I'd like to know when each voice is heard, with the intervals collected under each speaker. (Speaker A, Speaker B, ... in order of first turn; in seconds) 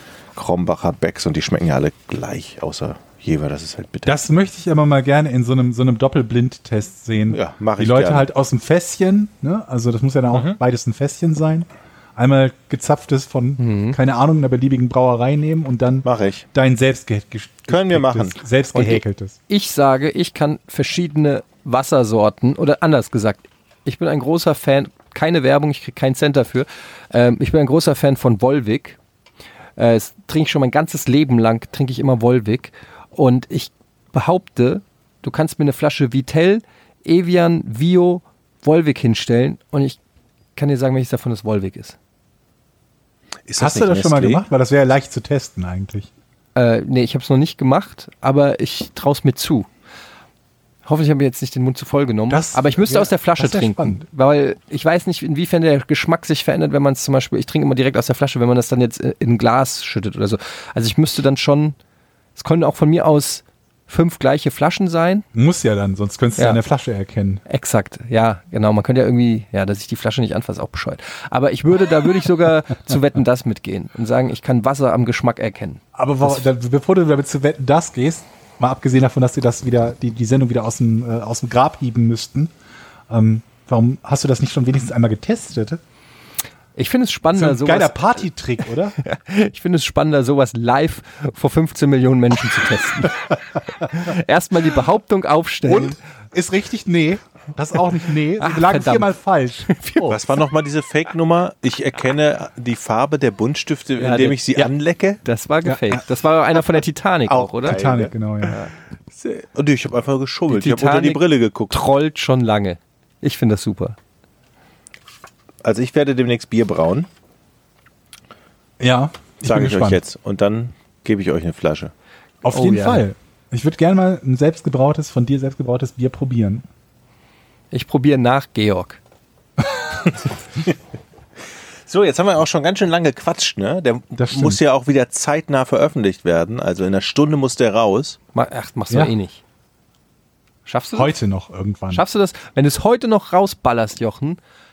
Speaker A: 0.3-4.2, 7.3-8.3, 10.3-10.6, 16.0-16.4, 17.7-18.4, 43.5-44.4, 100.0-105.2, 107.2-108.1, 109.2-111.8, 115.6-117.1, 119.4-121.9, 130.0-130.7, 131.9-138.2
Speaker B: 4.0-19.4, 43.6-46.1, 52.3-54.0, 65.3-67.4, 76.0-82.5, 83.1-85.8, 87.3-89.0, 95.6-99.7, 107.7-108.6, 118.8-120.0, 122.4-126.6, 134.2-134.6, 140.9-142.0
Speaker C: 13.6-14.0, 18.7-29.0, 29.8-40.0, 40.5-42.0, 46.5-49.7, 50.8-61.8, 62.4-65.2, 67.5-76.4, 86.8-88.3, 89.0-96.0, 98.4-99.1, 99.6-100.2, 104.0-104.7, 105.2-107.9, 108.5-108.7, 110.5-114.0, 122.5-123.0, 127.7-129.0, 138.3-139.4, 140.7-141.1, 141.9-144.4